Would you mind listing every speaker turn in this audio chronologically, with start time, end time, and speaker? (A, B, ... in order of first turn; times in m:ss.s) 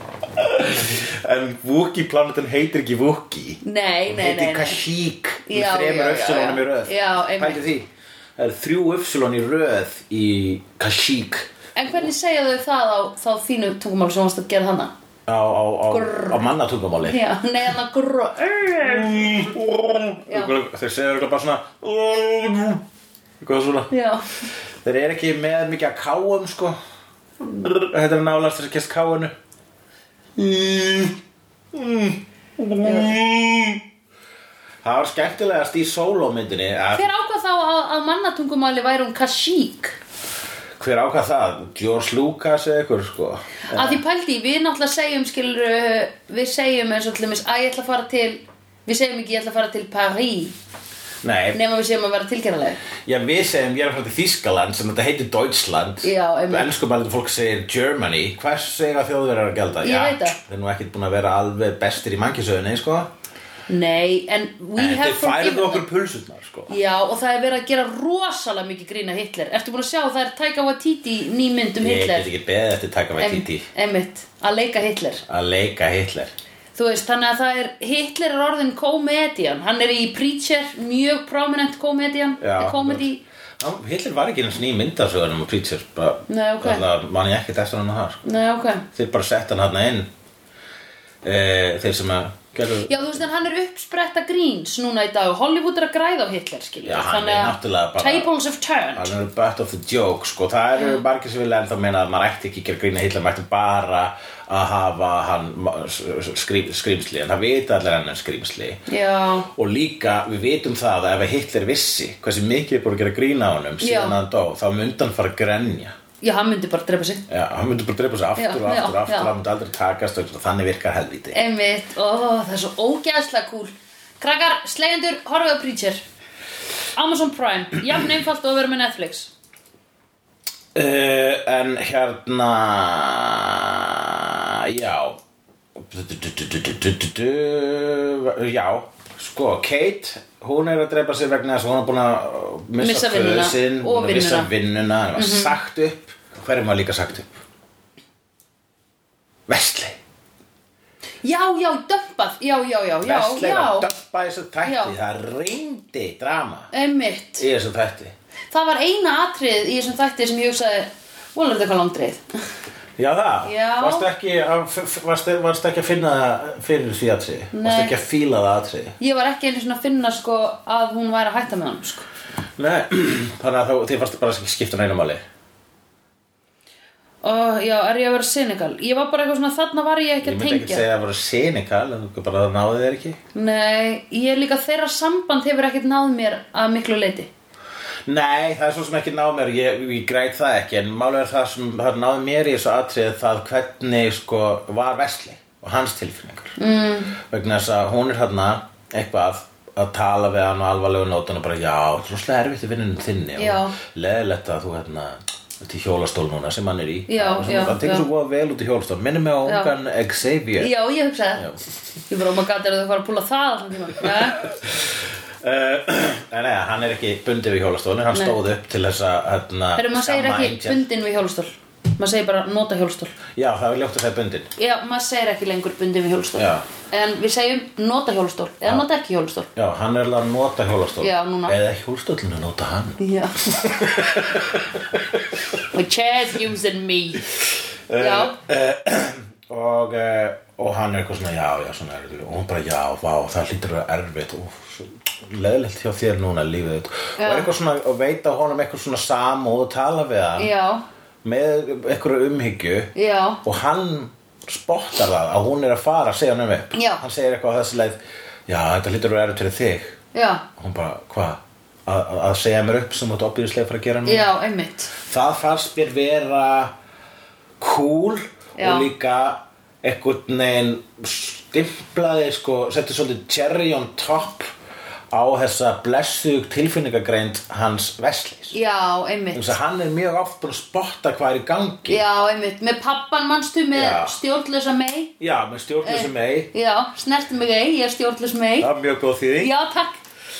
0:00.3-0:11.5 A
0:03.6-0:04.8 B
0:05.5-0:07.6 B
0:11.7-0:14.9 B
0:15.3-0:17.2 A
0:15.9-0:16.4 B
0:17.0-0:19.5 B
0:18.8-0:22.8 A
0:20.2-0:20.5 B
0:23.4-0:23.9 A
0:23.9-0:24.2 B
0:24.8-0:26.8 A
0:27.4-0:29.3 A
0:30.4-0:31.2 A
0:31.7-0:33.8 A
0:32.8-0:33.2 B
0:34.8-0:37.1 A
0:36.9-0:40.0 B
0:40.8-0:44.0 A
0:43.7-0:50.5 B
0:51.2-0:51.6 A
0:51.5-0:52.8 B
0:53.0-1:03.1 A
0:56.0-0:56.7 B
0:59.8-1:00.4 B
1:03.7-1:05.8 B
1:04.8-1:06.7 A
1:06.7-1:12.3 B
1:11.8-1:13.7 A
1:13.2-1:15.2 B
1:15.3-1:16.3 A
1:16.7-1:23.2 B
1:22.4-1:23.1 A
1:23.6-1:28.2 A
1:26.3-1:26.8 B
1:28.2-1:28.8 B
1:28.9-1:30.1 A
1:31.2-1:33.2 A
1:32.9-1:39.1 B
1:36.8-1:38.3 A
1:38.9-1:48.8 A
1:48.9-1:49.5 B
1:49.5-1:55.9 A
1:53.8-1:54.2 B
1:56.2-1:57.2 B
1:57.3-2:01.4 A
1:58.4-1:59.3 B
2:01.3-2:06.0 B
2:06.9-2:09.3 B
2:10.7-2:15.2 A
2:15.8-2:27.3 A
2:22.8-2:24.5 B
2:25.1-2:25.6 B
2:29.5-2:30.0 A
2:31.2-2:33.9 B
2:33.0-2:36.7 A
2:34.6-2:34.9 B
2:36.7-2:37.4 B
2:37.4-2:38.1 A
2:38.5-2:42.2 B
2:43.0-2:49.0 A
2:43.4-2:44.1 B
2:47.5-2:48.0 B
2:49.0-2:52.0 B
2:52.6-2:55.2 A
2:57.2-3:00.8 B
3:00.2-3:03.2 A
3:03.3-3:07.3 B
3:08.0-3:16.5 A
3:16.6-3:17.1 B
3:17.2-3:30.7 A
3:23.4-3:23.8 B
3:27.1-3:28.0 B
3:29.4-3:29.7 B
3:30.6-3:31.5 B
3:32.1-3:34.4 B
3:34.5-3:40.8 A
3:38.1-3:38.4 B
3:39.8-3:43.1 B
3:43.3-3:44.5 A
3:44.6-3:49.5 B
3:46.3-3:46.6 A
3:49.5-3:55.2 A
3:51.0-3:51.6 B
3:53.0-3:53.5 B
3:55.6-3:57.2 B
3:57.9-4:10.5 A
3:58.0-3:58.4 B
4:07.2-4:07.5 B
4:10.4-4:10.8 B
4:11.2-4:20.0 A
4:12.9-4:13.4 B
4:16.7-4:17.0 B
4:20.1-4:20.4 B
4:20.6-4:24.3 A
4:24.0-4:24.9 B
4:25.0-4:26.7 A
4:27.6-4:34.5 A
4:28.6-4:28.9 B
4:35.1-4:38.5 A
4:38.5-4:39.6 B
4:39.3-4:42.0 A
4:41.9-4:45.1 B
4:43.7-4:44.1 A
4:45.2-4:46.5 A
4:45.8-4:48.7 B
4:48.6-4:49.5 A
4:49.4-4:50.0 B